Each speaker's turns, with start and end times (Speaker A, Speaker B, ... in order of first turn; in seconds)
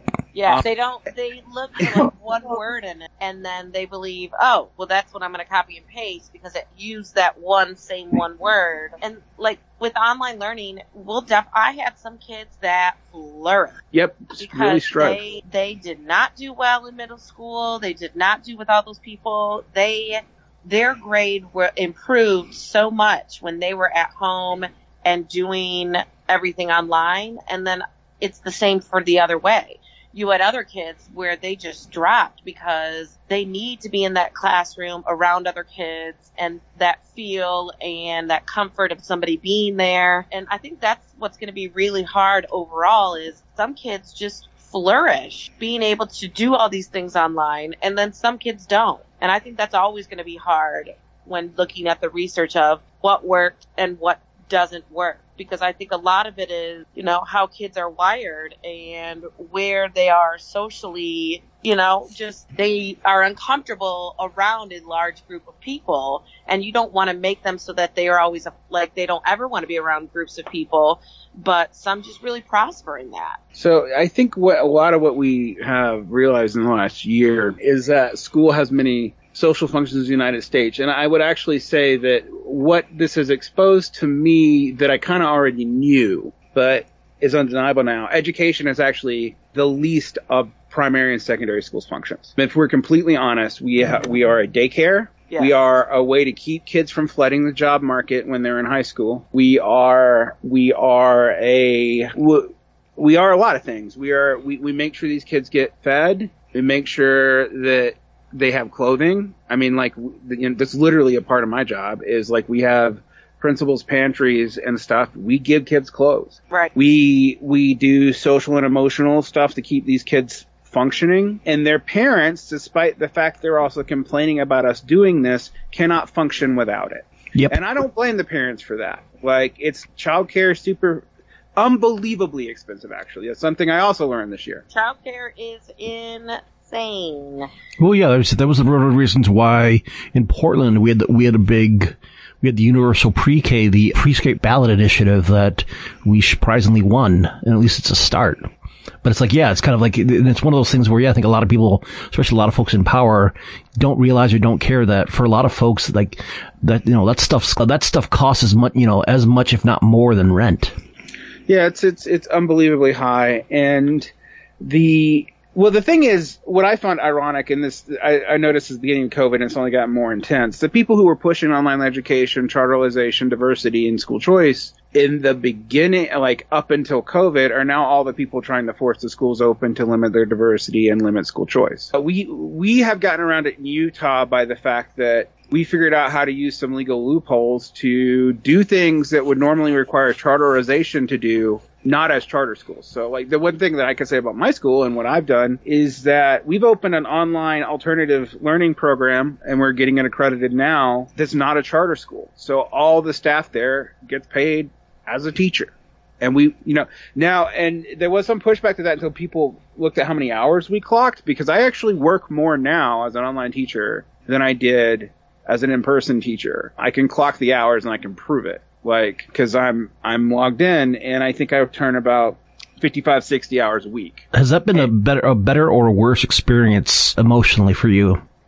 Speaker A: 0.3-13.8, 14.4-73.4, 95.3-95.6, 134.7-137.5
Speaker B: 13.9-15.2, 73.5-131.0, 131.6-134.6, 161.5-164.1, 164.6-224.2
Speaker C: 137.8-148.4, 149.0-160.8, 224.3-228.2